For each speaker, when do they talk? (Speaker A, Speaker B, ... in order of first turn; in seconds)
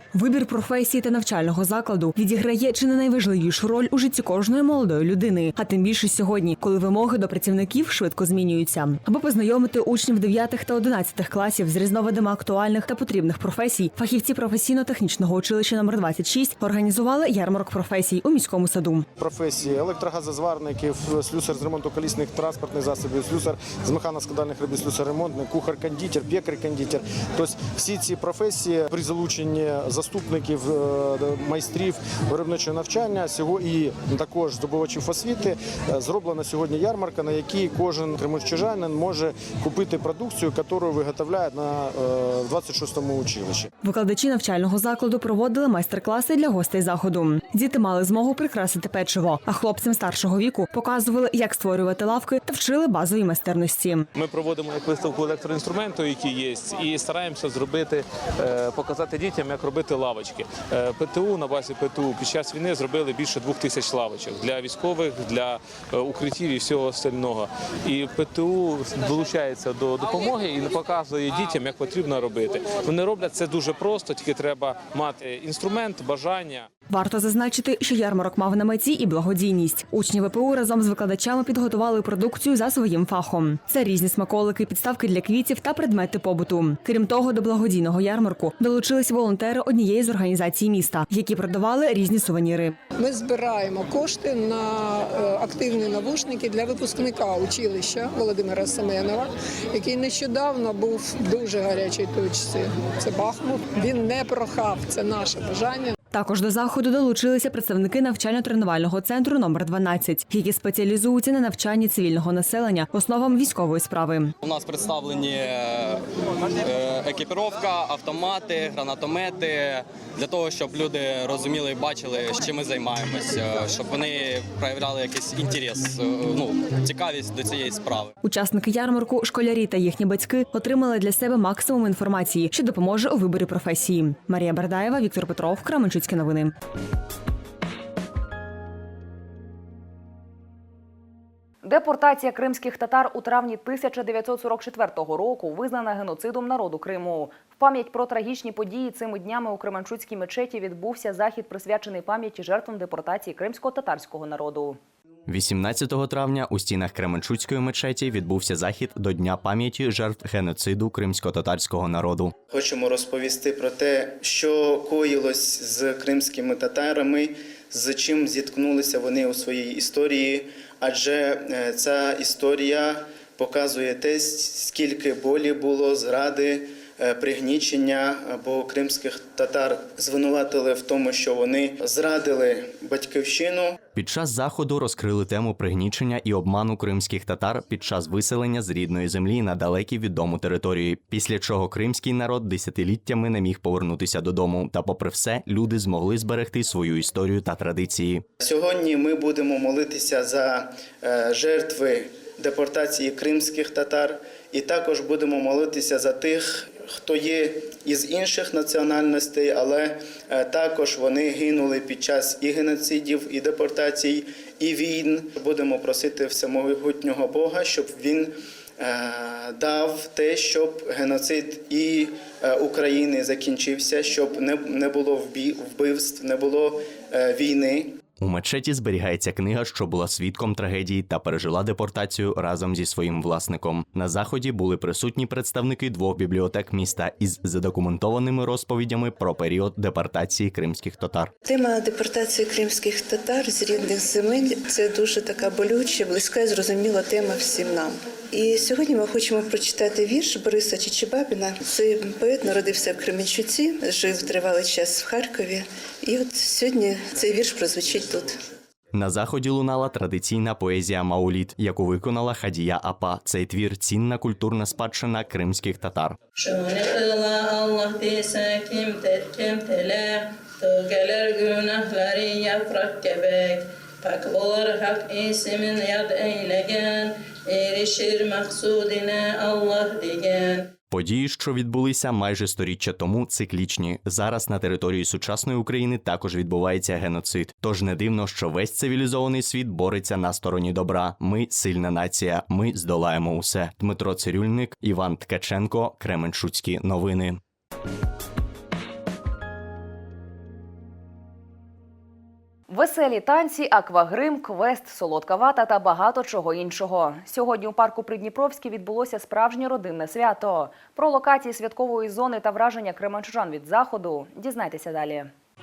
Speaker A: 0.1-19.1, 43.8-54.1, 76.9-92.8, 106.1-114.3, 128.2-136.5
Speaker B: 19.2-43.7
Speaker C: 54.2-76.7
Speaker D: 93.0-105.9
Speaker E: 114.4-116.0, 116.6-128.1
Speaker F: 141.6-154.8, 302.7-315.3
Speaker G: 155.3-162.3, 183.9-198.2, 228.2-241.3, 258.9-266.2, 280.9-297.4
Speaker H: 162.5-183.8, 198.4-228.0
Speaker I: 241.4-258.4
Speaker J: 266.4-280.7